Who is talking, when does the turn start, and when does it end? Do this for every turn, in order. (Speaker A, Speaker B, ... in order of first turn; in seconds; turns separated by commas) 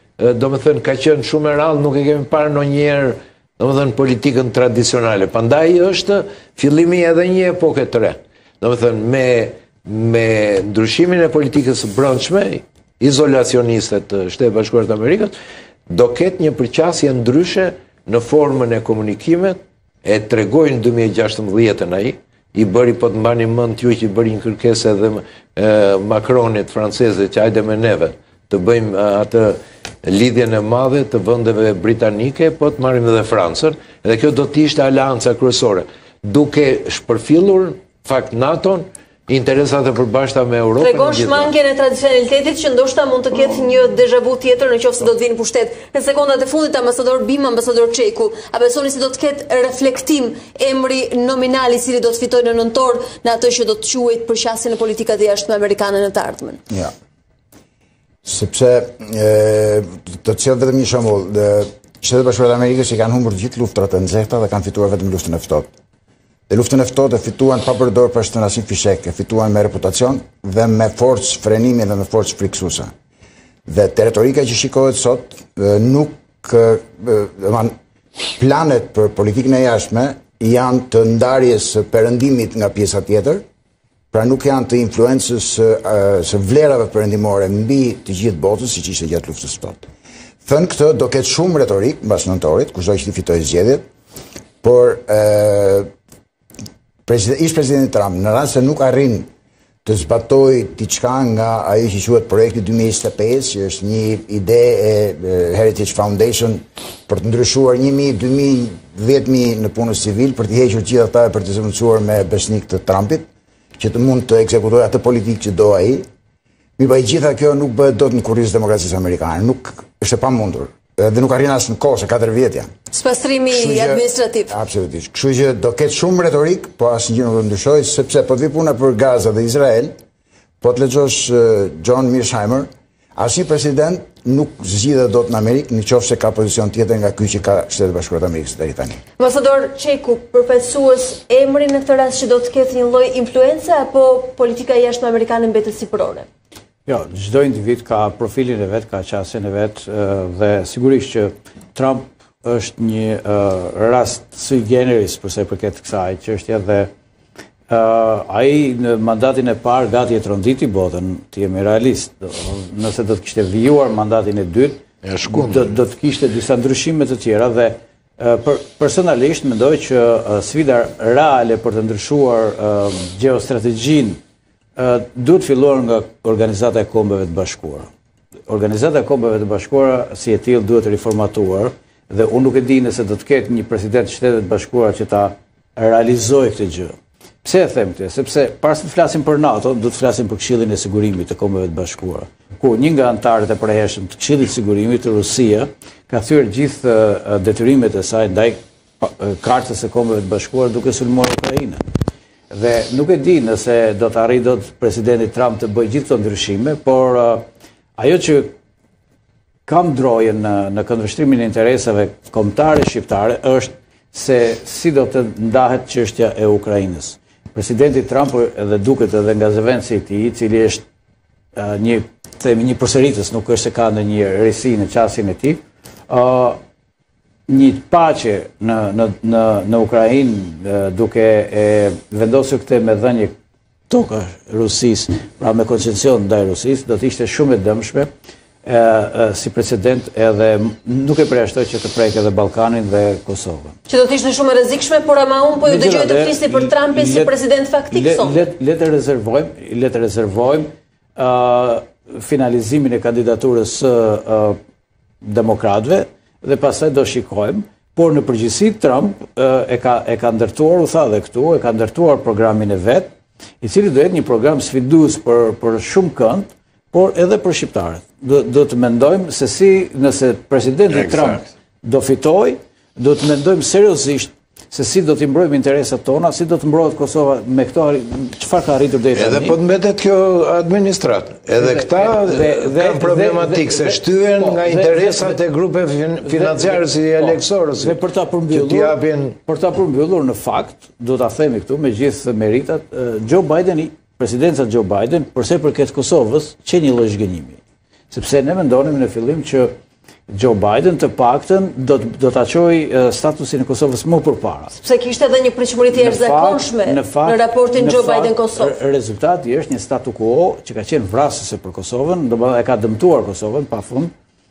Speaker A: 0.2-15.3, Speaker A: 15.9-41.5, Speaker B: 40.8-56.6, Speaker C: 58.2-65.7, Speaker C: 66.5-72.9, Speaker C: 73.7-77.8, Speaker C: 78.3-83.5, Speaker C: 84.1-89.9, Speaker C: 90.4-93.8, Speaker C: 94.6-95.9, Speaker C: 97.1-99.3, Speaker C: 99.8-113.3, Speaker C: 113.8-116.1, Speaker C: 116.8-122.7, Speaker B: 122.9-124.5, Speaker C: 123.5-130.0, Speaker C: 130.6-139.0, Speaker B: 139.2-146.3, Speaker D: 146.9-156.9, Speaker D: 157.7-174.2, Speaker A: 165.0-165.8, Speaker D: 174.8-177.9, Speaker D: 178.5-201.8, Speaker D: 202.5-207.5, Speaker D: 208.0-208.6, Speaker D: 209.7-220.8, Speaker D: 221.6-226.6, Speaker D: 227.5-233.3, Speaker D: 233.9-238.1, Speaker D: 238.6-243.8, Speaker B: 243.9-248.5, Speaker D: 245.6-247.3, Speaker D: 247.9-254.6, Speaker D: 255.2-279.6, Speaker A: 270.9-271.4, Speaker A: 279.1-288.0, Speaker D: 281.6-285.4, Speaker D: 286.2-297.6, Speaker A: 288.5-289.4, Speaker D: 298.1-299.8, Speaker D: 300.3-304.7, Speaker B: 304.8-308.8, Speaker D: 305.9-314.1